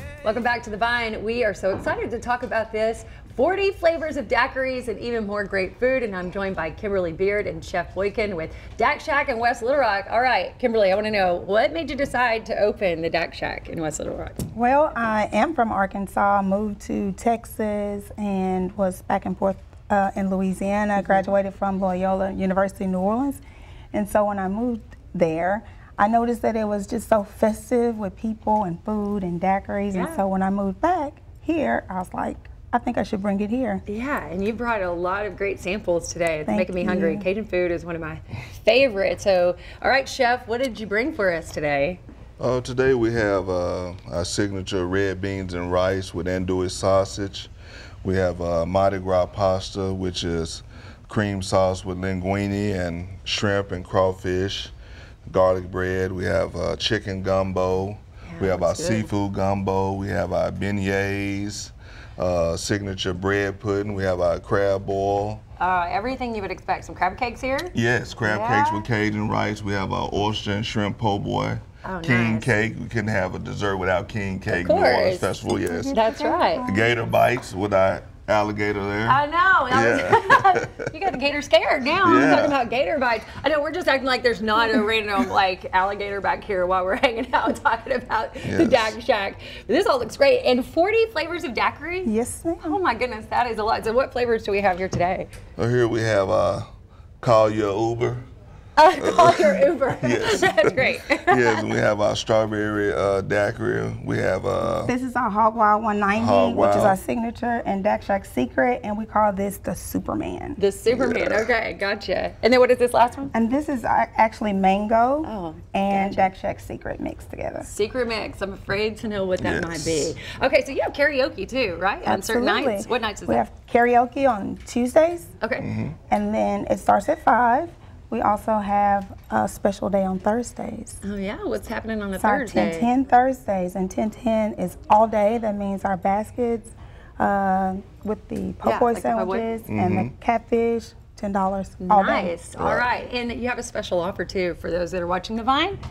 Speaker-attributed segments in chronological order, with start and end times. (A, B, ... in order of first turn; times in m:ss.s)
0:00.2-0:14.4 A
0:14.5-0:23.4 B
0:21.0-0:21.3 A
0:23.9-0:33.8 B
0:29.9-0:30.2 A
0:33.9-0:42.0 A
0:36.5-0:37.2 B
0:42.4-0:47.5 C
0:48.0-0:54.7 C
0:55.3-1:05.4 C
0:58.3-0:59.1 A
1:05.6-1:08.8 A
1:07.7-1:16.0 C
1:11.8-1:12.5 A
1:14.5-1:16.6 A
1:15.5-1:16.9 B
1:16.6-1:20.8 C
1:19.0-1:35.3 A
1:22.0-1:22.6 C
1:28.4-1:29.0 C
1:32.0-1:32.8 B
1:35.6-1:36.7 C
1:37.2-1:38.2 C
1:38.8-1:41.7 A
1:39.0-1:44.9 C
1:44.8-1:50.6 B
1:46.1-1:47.0 C
1:50.6-1:53.3 A
1:50.9-1:51.5 C
1:53.3-1:57.7 B
1:55.2-1:56.3 A
1:57.6-2:03.4 A
1:59.4-2:00.2 C
2:02.0-2:05.3 B
2:05.4-2:05.6 A
2:05.6-2:06.0 C
2:06.1-2:11.0 B
2:11.0-2:12.9 A
2:12.2-2:22.4 B
2:18.6-2:19.5 A
2:19.7-2:20.1 C
2:21.8-2:25.8 A
2:22.6-2:22.8 C